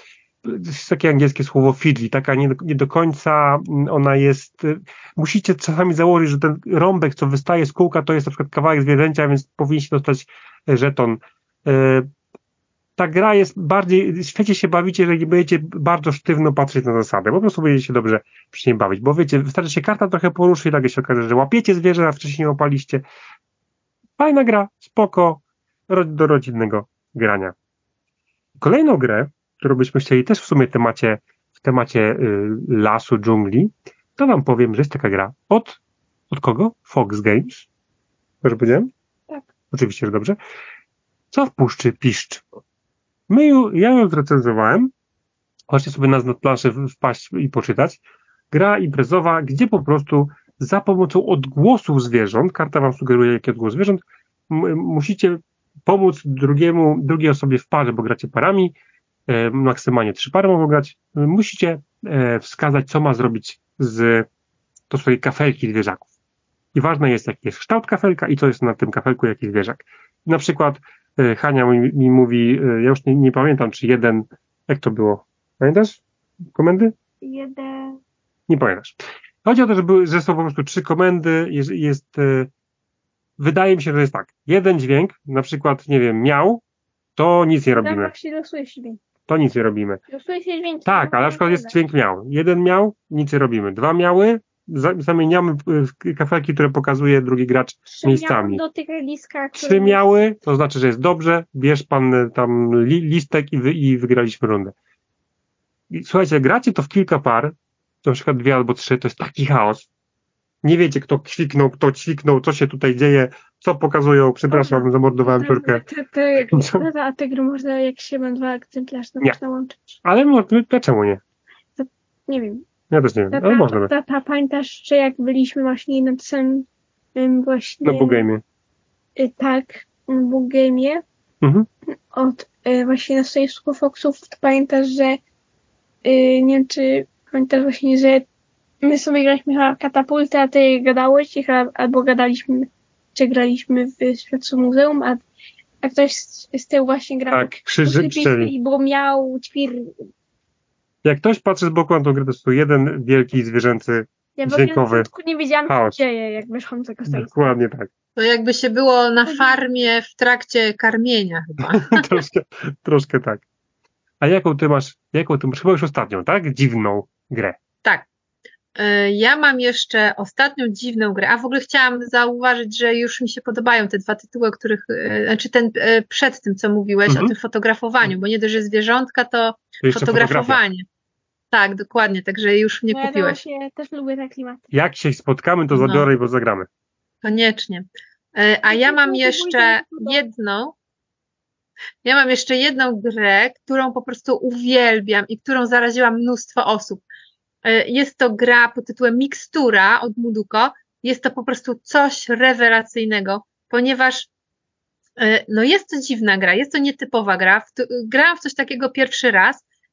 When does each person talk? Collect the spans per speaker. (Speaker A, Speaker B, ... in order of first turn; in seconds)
Speaker A: 0.4-12.1, 13.0-23.0, 24.2-27.5, 28.6-35.8, 36.3-37.7, 38.4-38.9, 39.7-40.4, 41.3-42.4, 43.3-44.9, 45.7-48.0, 48.5-58.7, 59.3-64.3, 64.9-66.0, 66.7-76.0, 76.5-76.9, 78.5-82.5, 83.4-86.6, 87.2-88.1, 89.3-90.0, 90.8-98.6, 99.5-104.7, 105.9-109.9, 110.6-115.8, 116.5-116.9, 120.0-121.2, 122.9-123.9, 127.8-128.4, 131.4-131.7, 147.3-148.5, 151.0-155.1, 155.7-156.0, 157.1-157.9, 161.7-163.4, 164.2-167.6, 177.1-177.3, 179.8-180.6, 184.7-186.7
Speaker B: 77.2-78.0, 87.8-89.0, 90.1-91.8, 97.9-100.0, 114.5-119.8, 121.8-122.7, 123.3-128.2, 129.2-131.0, 132.1-135.2, 136.0-138.3, 138.8-145.2, 145.8-150.1, 154.4-157.5, 159.2-159.6, 182.9-184.6, 188.7-190.2
Speaker C: 158.2-162.0, 168.8-180.8, 181.5-183.4, 185.7-186.1, 187.2-190.7, 192.0-197.0, 197.6-204.3, 205.2-209.6